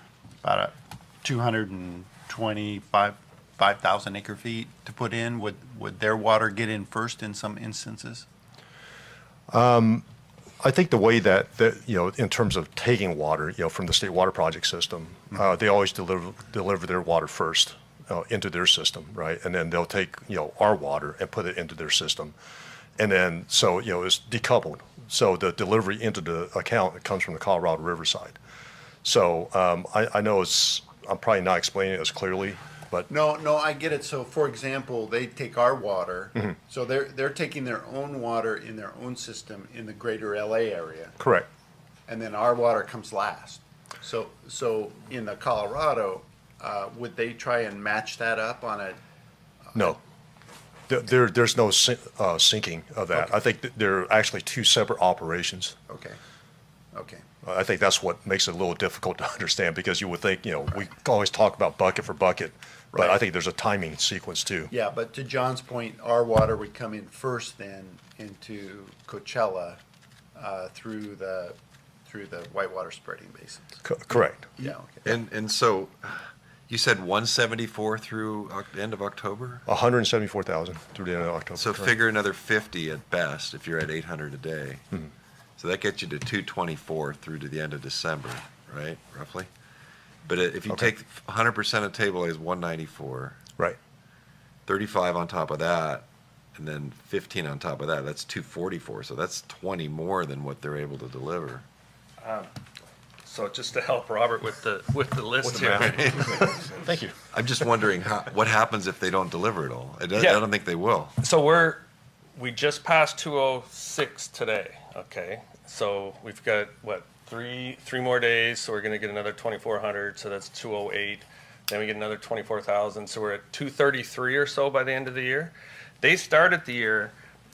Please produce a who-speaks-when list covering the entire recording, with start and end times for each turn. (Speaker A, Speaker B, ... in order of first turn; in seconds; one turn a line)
Speaker A: 0.4-8.3
Speaker B: 9.5-10.1
Speaker B: 10.6-22.4
Speaker B: 23.0-28.4
Speaker B: 29.0-33.1
Speaker A: 33.1-41.2
Speaker B: 41.2-41.5
Speaker A: 42.1-49.0
Speaker B: 49.8-50.0
Speaker B: 50.9-55.8
Speaker A: 55.9-56.2
Speaker A: 56.9-57.2
Speaker B: 57.4-64.7
Speaker A: 64.7-69.8
Speaker A: 70.3-73.8
Speaker B: 73.8-74.5
Speaker A: 74.4-75.2
Speaker C: 75.0-79.6
Speaker B: 79.7-82.0
Speaker C: 81.6-84.8
Speaker C: 85.6-89.5
Speaker C: 90.3-93.4
Speaker C: 94.7-101.7
Speaker D: 102.2-102.5
Speaker D: 103.2-106.4
Speaker C: 105.5-106.7
Speaker B: 106.4-107.1
Speaker C: 107.3-111.2
Speaker D: 110.1-110.4
Speaker D: 111.2-111.8
Speaker D: 112.4-127.2